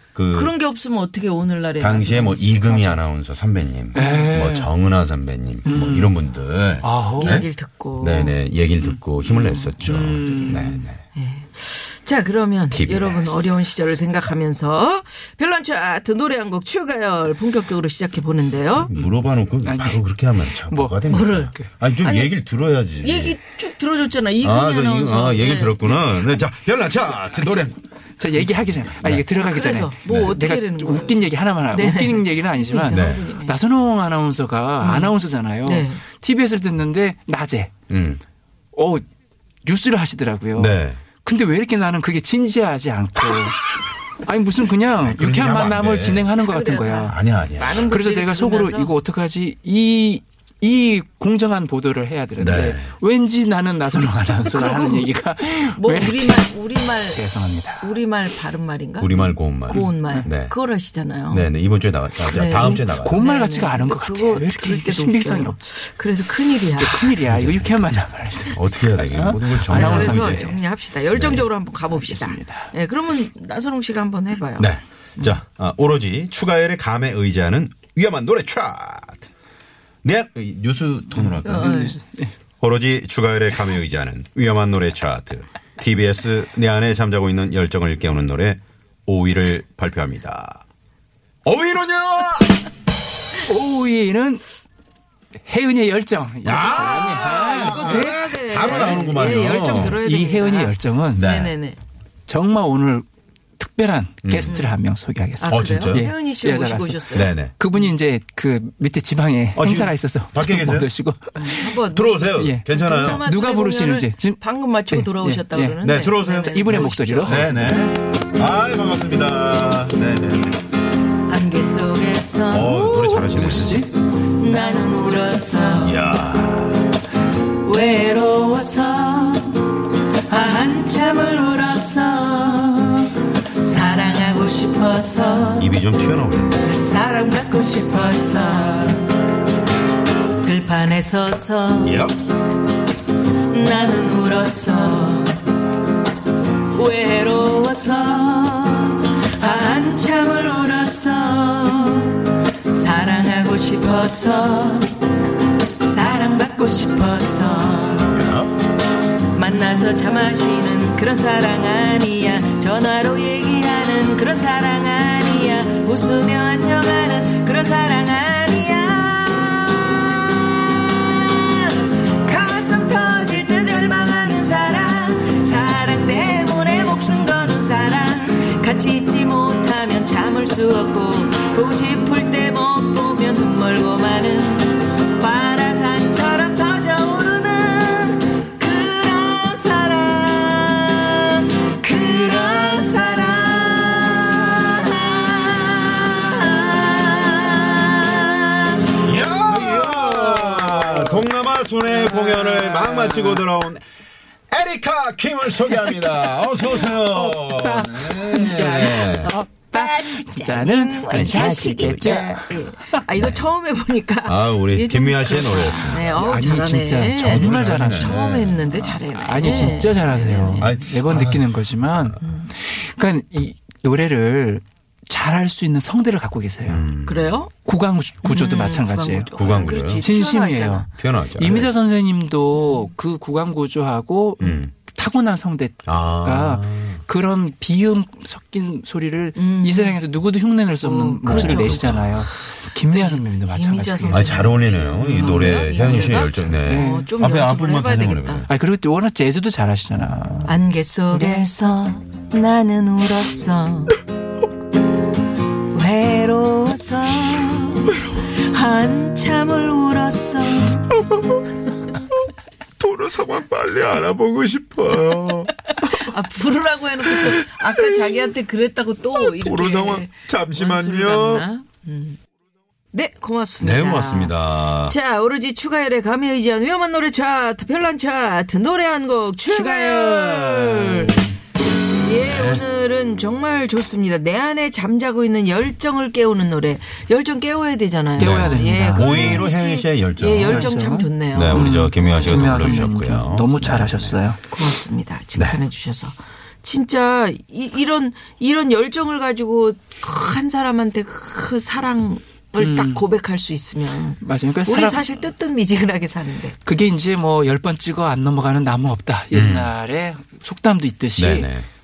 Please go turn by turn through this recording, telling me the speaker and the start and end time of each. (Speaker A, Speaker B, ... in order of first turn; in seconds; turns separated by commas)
Speaker A: 0.1-0.5, Speaker B: 0.3-3.0, Speaker A: 1.8-11.0, Speaker C: 3.9-4.7, Speaker B: 4.0-4.3, Speaker C: 5.6-6.1, Speaker C: 6.8-7.4, Speaker B: 7.2-8.3, Speaker C: 8.8-10.8, Speaker B: 9.5-9.8, Speaker B: 11.1-18.9, Speaker A: 12.7-13.6, Speaker A: 18.7-23.4, Speaker C: 18.9-21.7, Speaker B: 21.1-21.5, Speaker B: 22.0-22.3, Speaker B: 23.0-25.9, Speaker A: 24.4-29.2, Speaker C: 28.2-37.7, Speaker B: 29.5-33.5, Speaker A: 30.1-30.4, Speaker A: 32.9-33.3, Speaker B: 34.8-35.1, Speaker B: 35.7-36.0, Speaker A: 37.9-38.2, Speaker C: 38.7-39.0, Speaker C: 39.6-47.2, Speaker A: 40.5-41.0, Speaker A: 45.0-46.4, Speaker B: 46.5-48.9, Speaker A: 47.0-48.0, Speaker C: 47.7-58.1, Speaker A: 52.4-52.9, Speaker B: 54.5-55.1, Speaker B: 55.8-57.2, Speaker B: 57.8-59.1, Speaker A: 59.0-60.5, Speaker C: 59.1-60.3, Speaker B: 59.9-61.5, Speaker A: 61.3-63.2, Speaker B: 62.3-67.2, Speaker C: 62.6-70.7, Speaker A: 67.2-67.7, Speaker A: 68.5-70.4, Speaker B: 69.7-75.3, Speaker A: 71.1-71.5, Speaker C: 71.8-72.7, Speaker A: 74.6-79.3, Speaker A: 80.0-81.9, Speaker C: 81.1-82.3, Speaker B: 81.5-82.0, Speaker A: 82.6-90.6, Speaker A: 91.4-92.6, Speaker C: 93.4-94.5, Speaker C: 95.4-101.3, Speaker A: 96.4-100.0, Speaker B: 97.5-100.8, Speaker A: 101.1-101.5, Speaker B: 101.3-101.8, Speaker C: 102.3-103.0, Speaker C: 103.6-117.7, Speaker A: 104.2-104.6, Speaker B: 104.5-104.8, Speaker B: 105.4-107.2, Speaker A: 105.4-106.1, Speaker A: 107.1-107.5, Speaker A: 109.5-110.9, Speaker B: 111.4-117.8, Speaker A: 111.8-113.2, Speaker A: 115.8-120.5, Speaker B: 121.3-122.7, Speaker A: 122.5-123.8, Speaker C: 122.7-123.9, Speaker B: 124.4-126.0, Speaker A: 125.8-126.8, Speaker B: 127.6-132.7, Speaker C: 132.7-133.1, Speaker B: 133.6-135.7, Speaker A: 135.6-136.8, Speaker B: 136.6-139.1, Speaker B: 140.4-141.9, Speaker A: 141.8-142.1, Speaker B: 143.5-145.4, Speaker B: 146.7-155.0, Speaker B: 155.8-158.2, Speaker A: 158.0-158.5, Speaker B: 159.3-198.8, Speaker A: 199.0-203.8, Speaker C: 199.5-201.3, Speaker C: 201.8-203.5, Speaker A: 204.5-209.3, Speaker C: 205.7-213.1, Speaker B: 209.7-217.4, Speaker A: 211.1-212.4, Speaker A: 213.1-213.5, Speaker A: 214.2-216.2, Speaker C: 215.6-218.2, Speaker A: 217.1-222.2, Speaker B: 217.9-220.7, Speaker C: 219.1-226.9, Speaker A: 226.7-227.5, Speaker B: 227.1-227.5, Speaker C: 227.6-229.3, Speaker B: 228.2-230.8, Speaker A: 229.3-230.1, Speaker C: 229.9-247.2, Speaker A: 230.9-231.7, Speaker A: 234.4-234.7, Speaker A: 235.8-237.0, Speaker B: 239.4-240.0, Speaker B: 240.8-242.1, Speaker A: 241.2-242.2, Speaker B: 242.9-248.4, Speaker A: 244.1-248.5, Speaker C: 248.5-250.6, Speaker B: 250.5-253.9, Speaker C: 251.1-251.5, Speaker B: 255.7-260.8, Speaker A: 262.8-265.9, Speaker B: 266.2-272.2, Speaker A: 267.0-268.3, Speaker A: 269.1-271.5, Speaker B: 272.9-274.3, Speaker A: 273.6-274.9, Speaker B: 275.0-281.1, Speaker C: 279.5-281.3, Speaker B: 282.0-292.3, Speaker A: 282.1-282.6, Speaker C: 288.1-289.5, Speaker A: 288.2-290.7, Speaker C: 290.2-294.4, Speaker A: 291.3-294.2, Speaker B: 294.5-306.5, Speaker A: 295.3-295.6, Speaker C: 302.5-303.1, Speaker C: 304.2-305.2, Speaker C: 306.6-311.5, Speaker A: 309.3-309.7, Speaker A: 311.2-311.7